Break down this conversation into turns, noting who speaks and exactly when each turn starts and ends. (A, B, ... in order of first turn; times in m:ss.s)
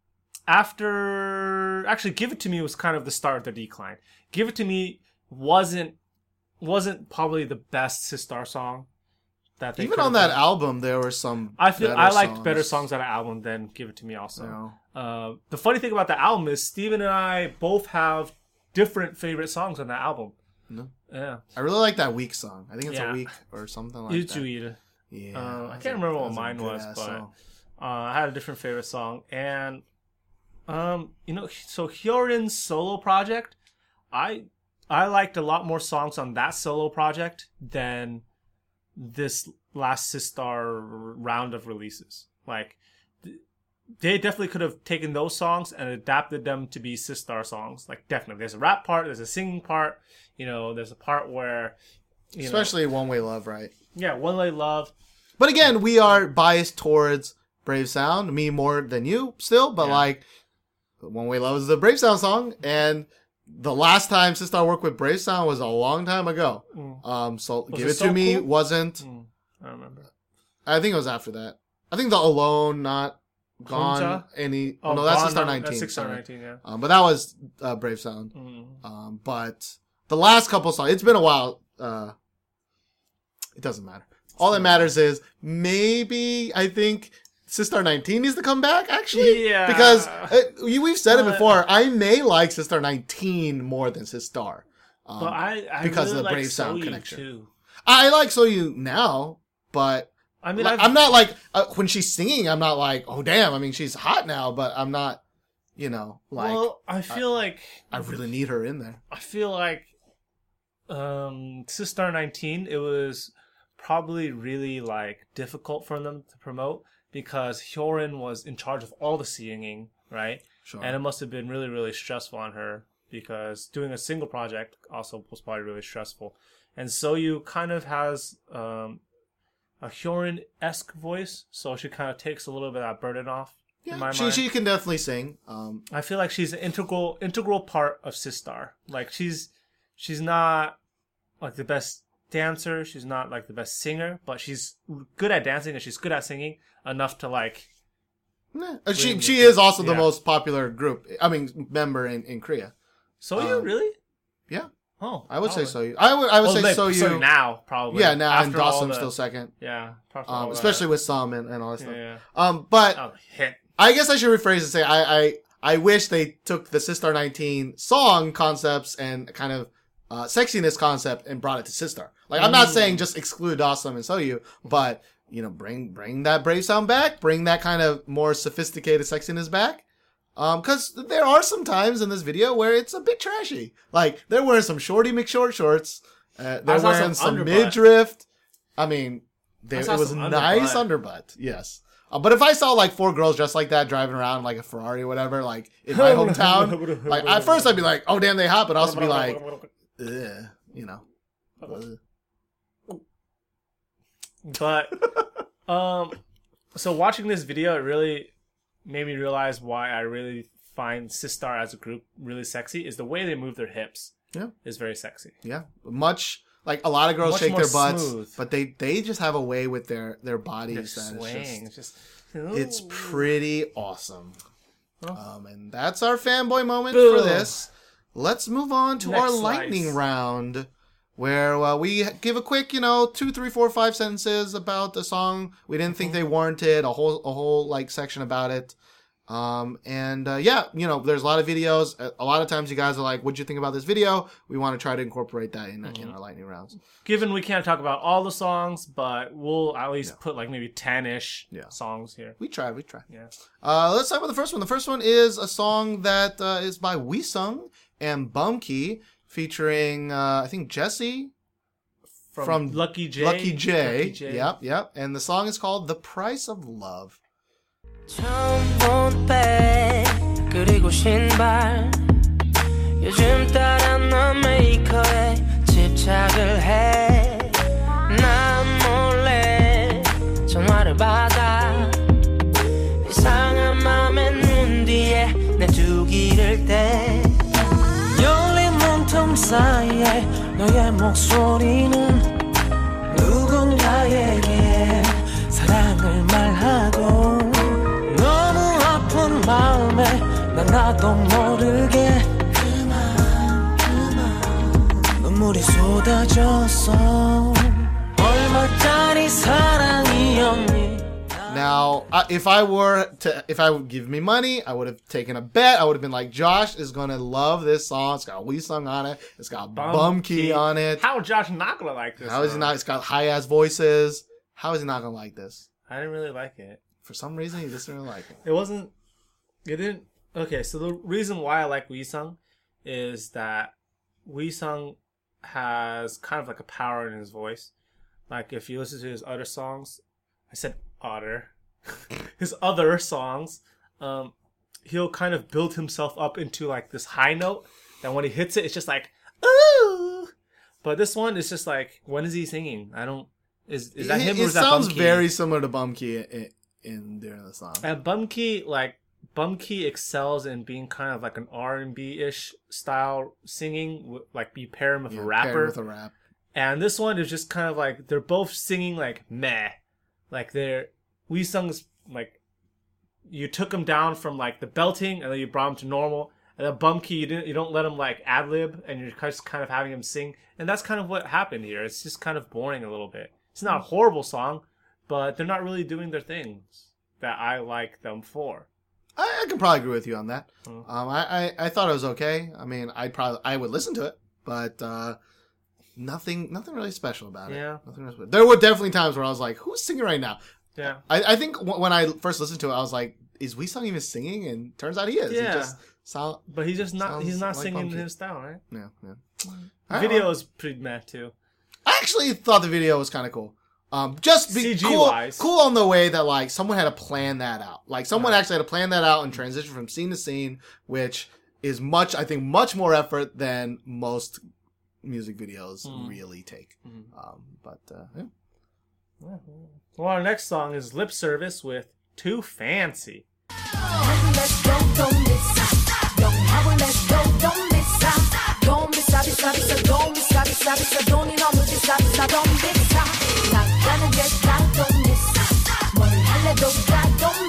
0:00.5-0:05.9 A
0:06.6-0:08.9 A
0:09.6-0:10.4 A
0:09.8-0:12.8 B
0:11.6-0:20.3 A
0:14.4-0:14.8 B
0:21.1-0:21.4 A
0:21.5-0:24.4 B
0:22.9-0:23.3 A
0:24.1-0:24.8 A
0:25.1-0:27.3 B
0:25.3-0:27.2 A
0:27.8-0:29.8 A
0:30.7-0:33.5 A
0:34.1-0:38.2 A
0:39.0-0:43.4 A
0:44.0-0:51.8 A
0:52.4-0:52.7 A
0:52.4-0:53.7 B
0:53.9-0:54.9 A
0:55.4-1:00.2 B
0:59.8-1:00.1 A
1:01.0-1:09.0 B
1:06.7-1:07.0 A
1:07.7-1:10.1 A
1:10.6-1:22.1 B
1:13.7-1:14.3 A
1:14.8-1:16.6 A
1:18.3-1:18.8 A
1:23.6-1:37.2 B
1:24.4-1:24.9 A
1:29.1-1:30.4 A
1:31.1-1:31.6 A
1:35.2-1:37.5 A
1:37.9-1:45.2 B
1:40.4-1:40.9 A
1:45.8-1:47.2 B
1:46.4-1:47.9 A
1:47.9-1:49.0 B
1:49.1-1:49.9 A
1:50.9-2:09.0 A
2:00.6-2:00.9 B
2:09.8-2:14.4 A
2:13.8-2:15.8 B
2:15.9-2:20.8 A
2:21.4-2:27.7 A
2:28.5-2:32.7 B
2:28.9-2:30.1 A
2:33.2-2:33.9 A
2:33.4-2:33.7 B
2:35.0-2:35.8 A
2:35.3-2:37.2 B
2:36.4-2:40.8 A
2:37.9-2:39.5 B
2:40.3-2:43.0 B
2:41.8-2:42.2 A
2:42.9-2:43.6 A
2:43.8-2:59.8 B
2:52.4-2:53.0 A
3:00.4-3:08.2 B
3:06.6-3:07.8 A
3:08.8-3:19.4 B
3:09.7-3:10.8 A
3:15.9-3:17.8 A
3:18.8-3:19.7 A
3:20.0-3:21.0 B
3:21.6-3:22.0 B
3:24.4-3:25.1 A
3:25.6-3:26.2 A
3:26.7-3:28.3 A
3:28.8-3:35.3 A
3:35.4-3:41.6 B
3:37.2-3:38.4 A
3:40.7-3:43.3 A
3:42.5-3:44.4 B
3:45.1-3:58.7 B
3:46.9-3:47.6 A
3:49.0-3:50.0 A
3:59.3-4:06.8 B
4:05.8-4:06.1 A
4:07.0-4:12.4 A
4:12.4-4:13.0 B
4:13.6-4:21.3 B
4:22.3-4:24.5 A
4:22.4-4:27.2 B
4:28.1-4:32.0 C
4:33.0-4:37.5 C
4:38.1-4:42.0 C
4:43.0-4:47.4 C
4:48.1-4:52.2 C
4:53.1-5:11.2 C
5:11.5-5:21.0 B
5:19.8-5:22.7 A
5:22.2-5:25.6 B
5:25.9-5:26.8 A
5:27.0-5:28.4 B
5:28.4-5:28.9 A
5:29.6-5:33.7 A
5:34.2-5:37.7 A
5:38.3-5:44.3 A
5:44.8-5:50.3 A
5:50.8-5:55.2 A
5:54.0-5:57.8 B
5:57.8-6:05.8 A
6:05.1-6:06.1 B
6:06.5-6:09.8 A
6:10.3-6:12.4 A
6:13.3-6:28.7 A
6:29.2-6:35.2 B
6:36.0-6:40.4 B
6:37.5-6:37.8 A
6:40.8-6:41.0 A
6:41.0-6:46.4 B
6:45.3-6:45.8 A
6:46.5-6:48.6 A
6:47.0-6:48.1 B
6:48.7-6:50.3 B
6:49.9-6:51.3 A
6:51.8-7:04.4 B
6:54.5-6:55.4 A
6:58.1-6:58.4 A
7:05.0-7:08.3 B
7:05.8-7:06.2 A
7:06.8-7:07.1 A
7:09.2-7:13.2 A